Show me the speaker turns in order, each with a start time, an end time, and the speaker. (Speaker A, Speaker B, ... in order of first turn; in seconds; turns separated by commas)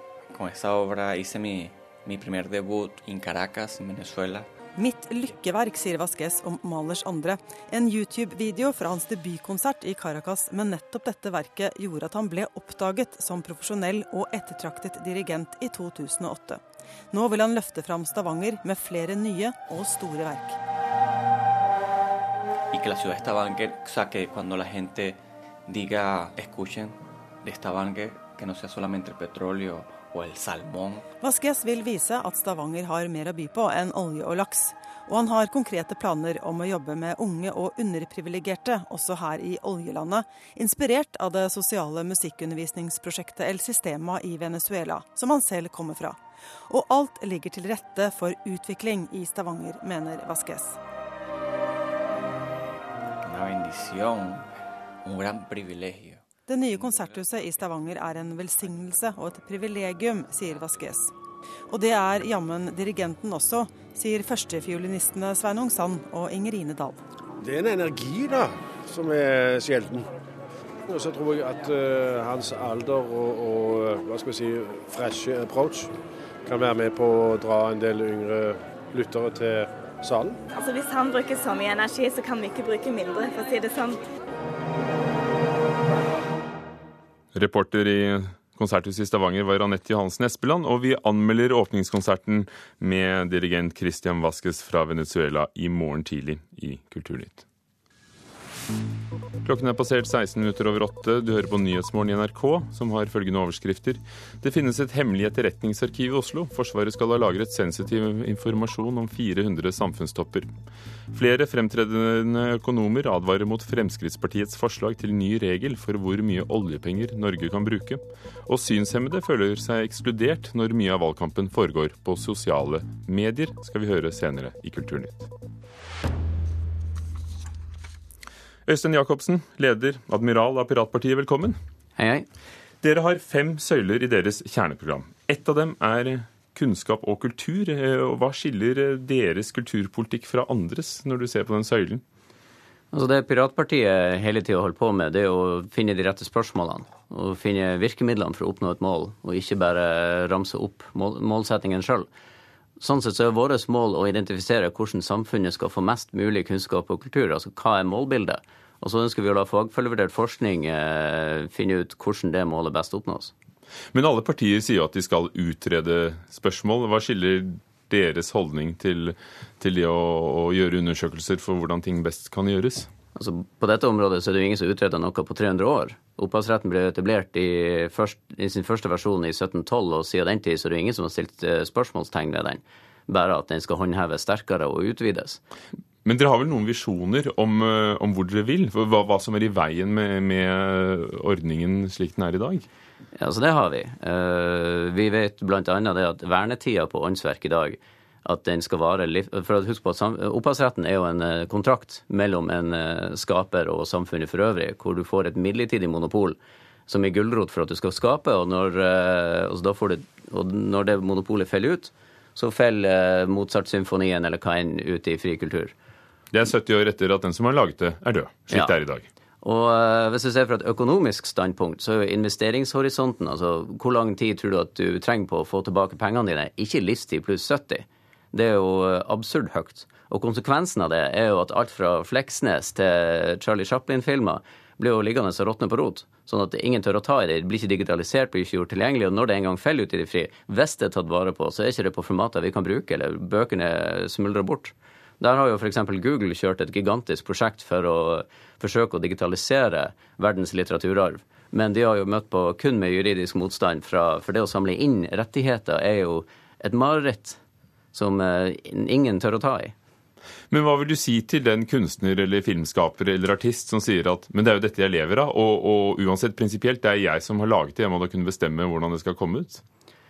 Speaker A: 0.3-4.5, Speaker B: 4.8-20.6, Speaker A: 22.7-31.1, Speaker B: 31.2-50.8, Speaker A: 53.2-54.5, Speaker A: 55.0-57.5, Speaker B: 56.5-61.1, Speaker B: 61.7-67.0, Speaker C: 67.4-70.1, Speaker C: 70.9-80.4, Speaker D: 80.6-84.0, Speaker E: 87.3-97.4, Speaker E: 99.4-110.5, Speaker E: 111.1-125.3, Speaker E: 128.7-131.6, Speaker F: 132.0-132.3, Speaker E: 132.8-142.0, Speaker F: 142.9-152.1, Speaker F: 152.8-163.3, Speaker E: 163.9-172.9, Speaker F: 173.1-185.4, Speaker E: 186.0-192.7, Speaker F: 193.2-215.7, Speaker E: 216.3-219.1, Speaker F: 219.4-257.4, Speaker F: 257.9-259.7, Speaker E: 260.5-269.6